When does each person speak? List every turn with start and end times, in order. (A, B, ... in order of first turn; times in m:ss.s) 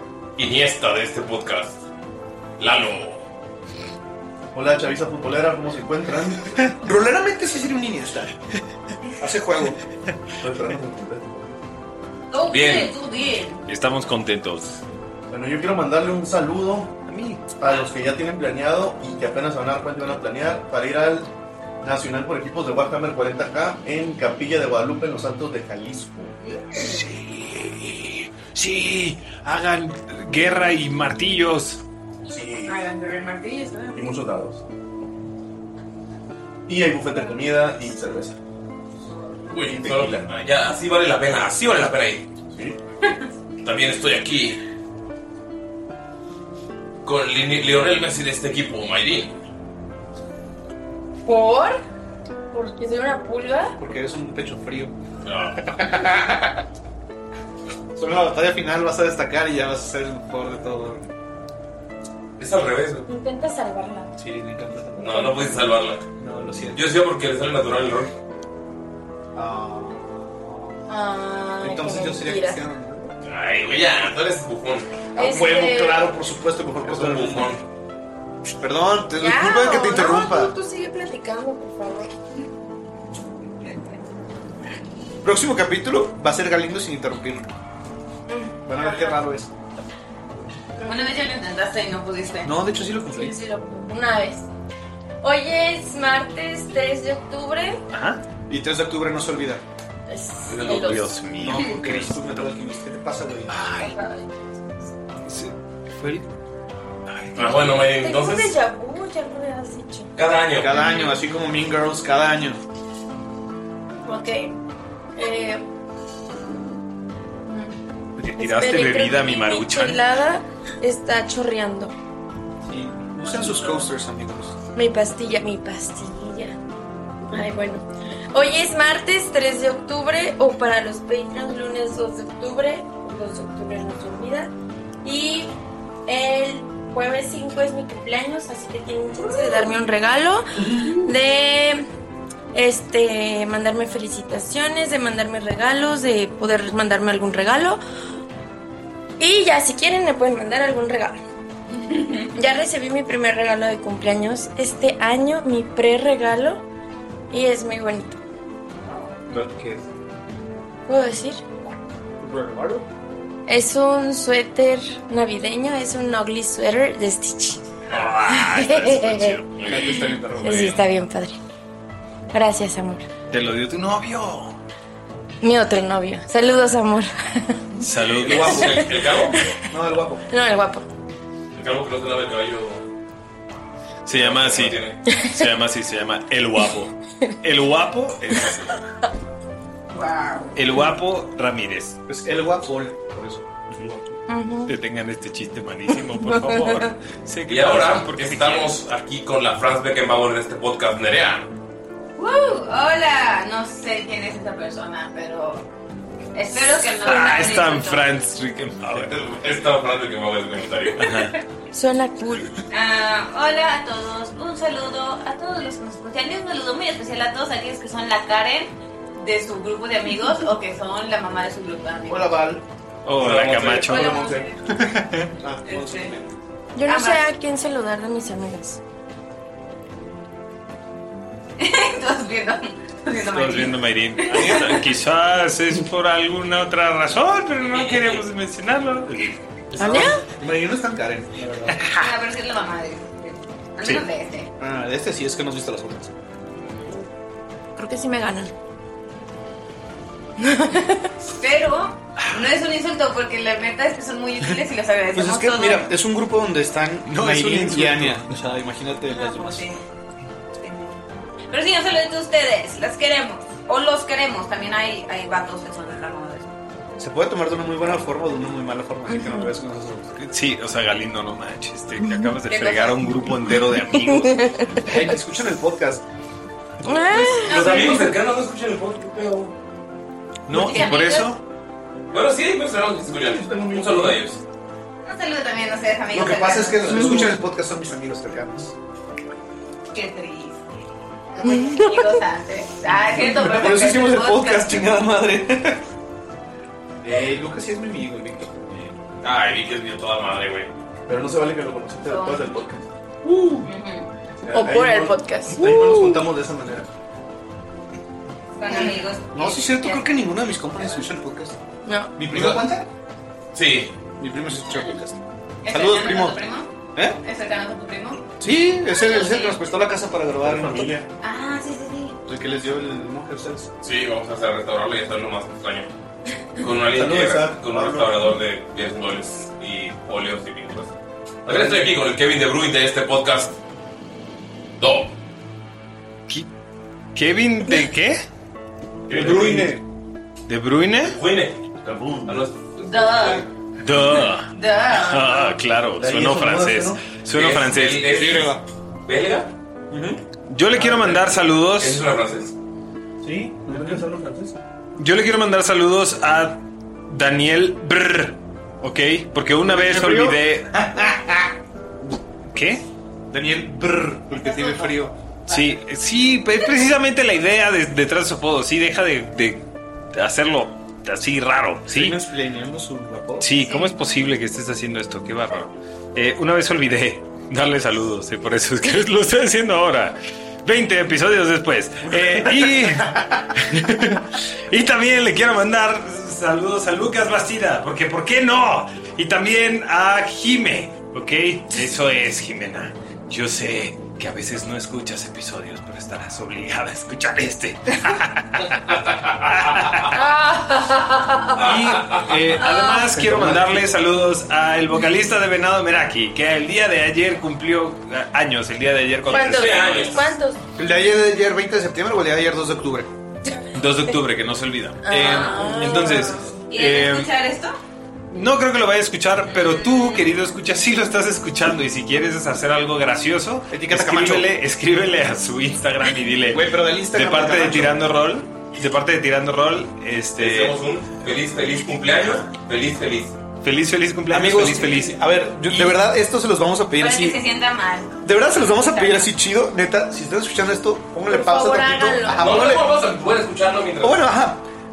0:00.4-0:01.8 A
0:02.6-0:03.2 A
0:04.5-0:06.5 B
0:06.6-0:08.3 C
0:09.2-0:09.8 C
0:10.4-0:11.5 B
0:12.3-0:13.6 D
0:12.5-0:12.9 A
0:13.7-0:14.8 E
0:15.3-0:17.0 B
0:17.1-0:17.6 E
0:17.6-0:21.3 B
0:21.8-0:26.4 B
0:26.8-0:31.8 E
0:32.3-0:32.8 B
0:32.6-0:34.0 D
0:33.9-0:34.6 B
0:36.7-0:38.4 B
0:39.5-0:42.2 A
0:39.5-0:40.3 B
0:42.5-0:42.8 B
0:43.6-0:44.6 A
0:47.0-0:49.3 A
0:51.2-0:51.8 F
0:52.5-0:53.8 F
0:53.8-0:54.9 C
0:55.2-0:55.9 A
0:55.6-0:56.6 C
0:58.0-1:01.0 C
1:02.4-1:03.1 A
1:03.1-1:04.1 F
1:04.2-1:05.6 C
1:05.0-1:06.0 A
1:06.2-1:06.8 C
1:06.7-1:08.1 A
1:09.3-1:10.8 C
1:10.9-1:12.6 F
1:11.6-1:13.1 C
1:13.2-1:14.9 A
1:15.2-1:16.1 F
1:15.2-1:17.5 C
1:16.8-1:17.6 A
1:18.6-1:20.5 C
1:19.2-1:22.1 F
1:25.2-1:27.5 C
1:28.3-1:29.2 F
1:28.6-1:29.5 C
1:30.8-1:32.5 D
1:32.4-1:33.4 C
1:33.1-1:34.5 F
1:35.2-1:37.8 F
1:37.9-1:38.2 E
1:38.5-1:39.6 C
1:40.1-1:41.2 F
1:40.5-1:41.0 A
1:40.8-1:42.2 E
1:41.4-1:43.9 C
1:43.5-1:43.9 E
1:45.2-1:46.2 E
1:47.1-1:47.8 E
1:47.3-1:48.6 A
1:47.8-1:50.1 F
1:50.2-1:50.7 A
1:50.6-1:52.6 C
1:50.8-1:51.1 D
1:54.0-1:54.6 F
1:55.2-1:55.6 F
1:57.5-1:57.7 F
1:58.2-2:00.0 E
1:58.4-2:01.9 F
2:02.6-2:04.5 C
2:04.7-2:06.6 F
2:07.3-2:14.5 F
2:15.0-2:15.5 F
2:16.1-2:21.9 F
2:20.7-2:21.0 C
2:22.5-2:27.8 F
2:29.2-2:31.2 F
2:32.3-2:36.6 F
2:37.3-2:38.2 F
2:39.3-2:39.8 E
2:40.9-2:41.4 F
2:42.2-2:42.8 C
2:43.5-2:47.6 F
2:47.9-2:49.6 E
2:48.3-2:49.5 F
2:49.6-2:50.0 A
2:49.6-2:50.8 C
2:50.4-2:51.4 F
2:52.3-2:53.0 F
2:53.3-2:54.6 E
2:55.4-2:57.6 F
2:57.8-2:58.8 E
2:58.1-2:58.8 C
2:58.2-2:59.4 A
2:58.6-2:59.5 F
2:59.7-3:00.2 C
3:00.3-3:00.8 F
3:01.5-3:02.8 A
3:04.0-3:08.7 E
3:04.1-3:05.0 A
3:09.9-3:10.8 D
3:10.5-3:12.0 E
3:12.1-3:14.1 C
3:14.3-3:14.7 F
3:14.6-3:18.8 E
3:16.2-3:16.7 F
3:17.5-3:21.5 A
3:22.2-3:25.6 D
3:26.3-3:28.1 D
3:26.9-3:29.2 E
3:28.9-3:31.1 A
3:30.9-3:31.3 E
3:31.7-3:32.6 F
3:32.7-3:42.4 D
3:42.1-3:42.6 C
3:43.0-3:44.3 E
3:43.1-3:44.2 A
3:43.7-3:44.5 D
3:45.4-3:46.3 C
3:45.6-3:46.1 D
3:46.7-3:48.8 F
3:46.8-3:47.3 D
3:51.6-3:54.8 D
3:53.2-3:59.4 E
3:54.4-3:54.6 C
3:57.9-3:58.2 A
3:59.7-4:00.2 A
3:59.8-4:00.2 F
4:00.4-4:01.8 C
4:01.8-4:02.1 E
4:02.0-4:04.5 D
4:04.6-4:06.1 C
4:07.8-4:08.5 F
4:10.4-4:11.1 F
4:11.4-4:15.9 D
4:12.2-4:12.5 E
4:15.1-4:19.7 C
4:17.0-4:18.3 E
4:19.1-4:19.8 D
4:20.6-4:21.0 D
4:21.5-4:26.5 D
4:27.0-4:30.2 C
4:29.1-4:29.5 F
4:30.2-4:34.7 E
4:32.4-4:33.1 D
4:34.0-4:34.6 F
4:34.8-4:36.0 C
4:36.8-4:38.0 F
4:37.4-4:39.2 A
4:37.5-4:37.9 D
4:39.2-4:39.5 F
4:40.5-4:41.4 E
4:40.5-4:41.3 D
4:42.1-4:44.4 A
4:43.1-4:44.2 B
4:45.0-4:47.3 D
4:46.1-4:48.7 C
4:46.9-4:47.3 F
4:49.9-4:50.6 D
4:51.3-4:54.9 D
4:51.4-4:52.2 F
4:53.1-4:55.8 C
4:57.0-4:58.9 C
4:59.2-5:00.7 A
5:01.1-5:02.9 B
5:02.0-5:02.5 D
5:03.2-5:03.7 C
5:03.6-5:04.1 D
5:04.4-5:06.9 B
5:04.5-5:05.8 F
5:08.6-5:10.1 D
5:08.7-5:09.0 F
5:09.3-5:11.6 C
5:11.8-5:12.1 F
5:12.2-5:12.9 C
5:13.5-5:13.9 A
5:14.2-5:15.2 C
5:15.6-5:18.2 D
5:15.7-5:16.4 C
5:18.4-5:20.9 C
5:18.9-5:19.6 D
5:20.4-5:21.1 B
5:21.2-5:22.2 D
5:22.2-5:23.7 C
5:23.8-5:25.9 A
5:26.6-5:30.9 A
5:26.9-5:28.3 B
5:31.4-5:33.6 A
5:34.8-5:35.1 A
5:37.1-5:38.2 E
5:39.1-5:39.8 A
5:39.1-5:39.8 C
5:40.5-5:41.2 E
5:41.0-5:41.6 A
5:41.8-5:42.4 B
5:42.2-5:43.4 A
5:42.9-5:43.4 D
5:43.8-5:48.1 E
5:44.5-5:45.6 D
5:46.0-5:47.0 B
5:47.3-5:49.5 A
5:48.0-5:48.6 C
5:49.9-5:50.2 C
5:50.5-5:52.0 E
5:50.8-5:51.2 A
5:51.8-5:52.5 A
5:53.2-5:54.5 B
5:53.7-5:54.0 C
5:55.0-6:00.7 E
5:59.6-6:01.5 C
6:02.5-6:02.8 E
6:03.3-6:05.1 C
6:04.3-6:04.9 D
6:05.5-6:12.2 E
6:11.9-6:13.5 C
6:13.4-6:40.2 E
6:13.6-6:13.9 D
6:22.0-6:23.4 C
6:40.1-6:41.6 F
6:41.5-6:42.6 A
6:41.6-6:50.2 E
6:42.6-6:43.0 F
6:43.2-6:43.7 C
6:49.3-6:50.6 F
6:49.3-6:50.2 A
6:50.8-6:53.1 C
6:53.7-6:57.3 E
6:55.0-6:56.5 F
6:55.2-6:56.1 D
6:56.7-6:57.7 D
6:58.3-7:10.8 E
6:59.6-7:00.3 D
7:03.7-7:04.5 C
7:06.5-7:08.0 C
7:10.4-7:13.4 A
7:13.6-7:16.0 E
7:14.3-7:17.4 C
7:17.0-7:19.3 D
7:18.2-7:22.9 C
7:21.2-7:22.7 F
7:22.4-7:24.3 A
7:24.0-7:24.6 C